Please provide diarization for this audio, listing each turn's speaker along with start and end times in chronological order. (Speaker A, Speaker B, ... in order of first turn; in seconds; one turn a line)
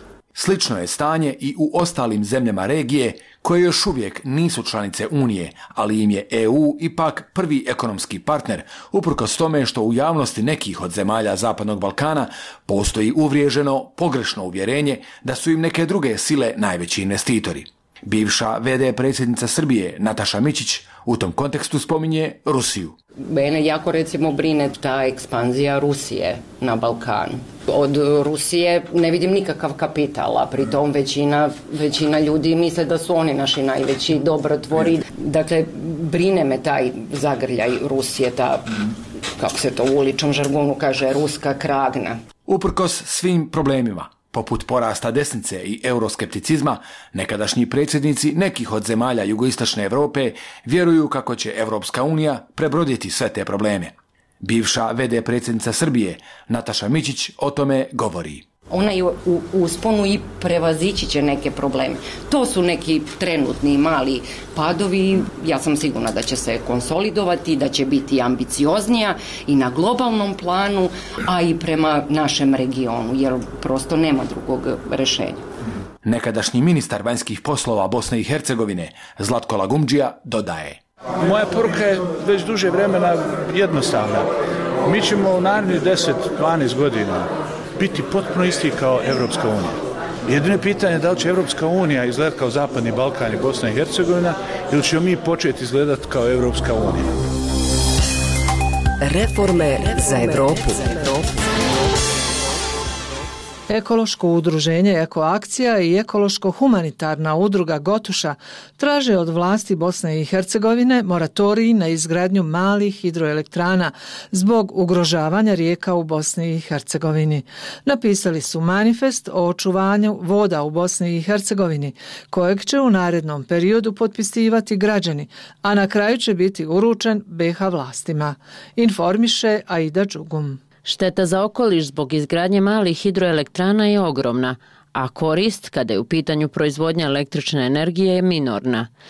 Speaker A: 0.3-22.9
Speaker B: 23.2-42.2
Speaker A: 42.5-58.5
Speaker B: 58.7-75.4
Speaker A: 76.0-80.8
Speaker C: 81.2-84.3
Speaker C: 84.8-97.2
Speaker D: 99.0-101.2
Speaker B: 100.2-100.5
Speaker E: 103.7-130.6
Speaker F: 130.8-138.9